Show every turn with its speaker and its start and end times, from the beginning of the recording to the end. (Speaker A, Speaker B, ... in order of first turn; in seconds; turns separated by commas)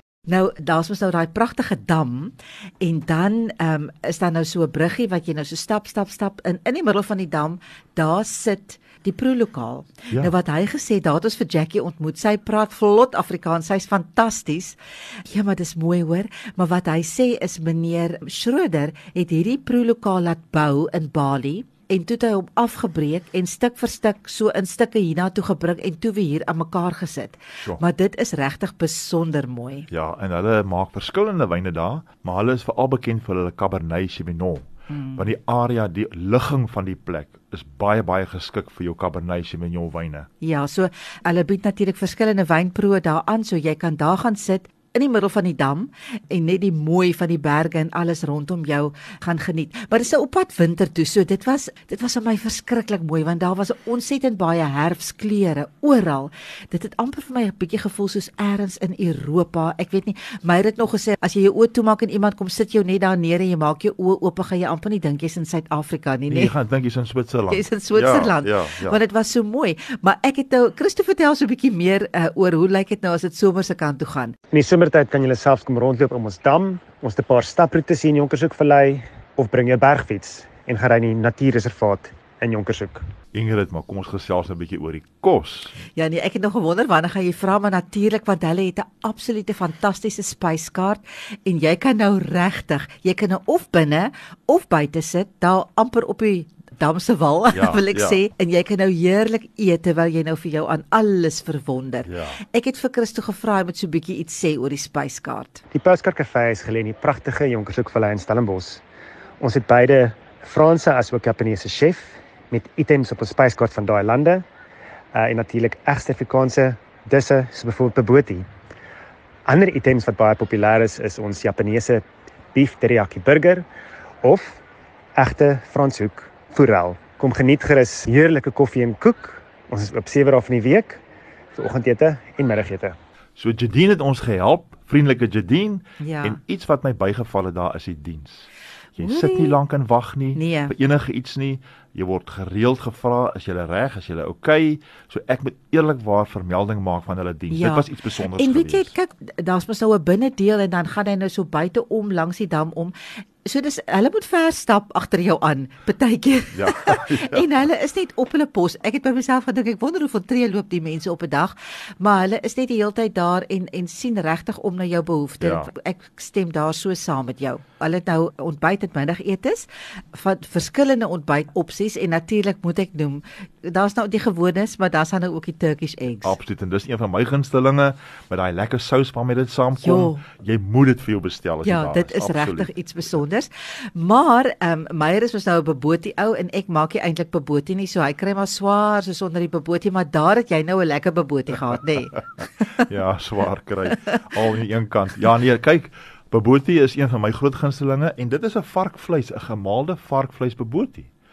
Speaker A: 0.3-29.9, Speaker B: 29.9-40.3, Speaker A: 34.9-35.3, Speaker A: 40.4-66.5, Speaker B: 66.3-69.0, Speaker A: 67.5-74.3, Speaker C: 74.5-83.0, Speaker B: 83.3-85.8, Speaker A: 85.9-105.6, Speaker B: 97.5-98.2, Speaker B: 102.0-102.4, Speaker C: 105.7-108.8, Speaker C: 109.4-114.4, Speaker C: 115.1-118.4, Speaker C: 119.5-123.6, Speaker C: 124.2-124.6, Speaker C: 125.2-131.0, Speaker C: 131.6-132.9, Speaker B: 133.4-148.9, Speaker A: 136.0-136.4, Speaker A: 139.0-139.6, Speaker A: 140.3-140.7, Speaker A: 147.5-176.4, Speaker B: 156.5-157.4, Speaker B: 165.4-165.7, Speaker B: 176.2-182.7, Speaker A: 179.8-180.2, Speaker A: 181.6-192.9, Speaker B: 192.8-201.1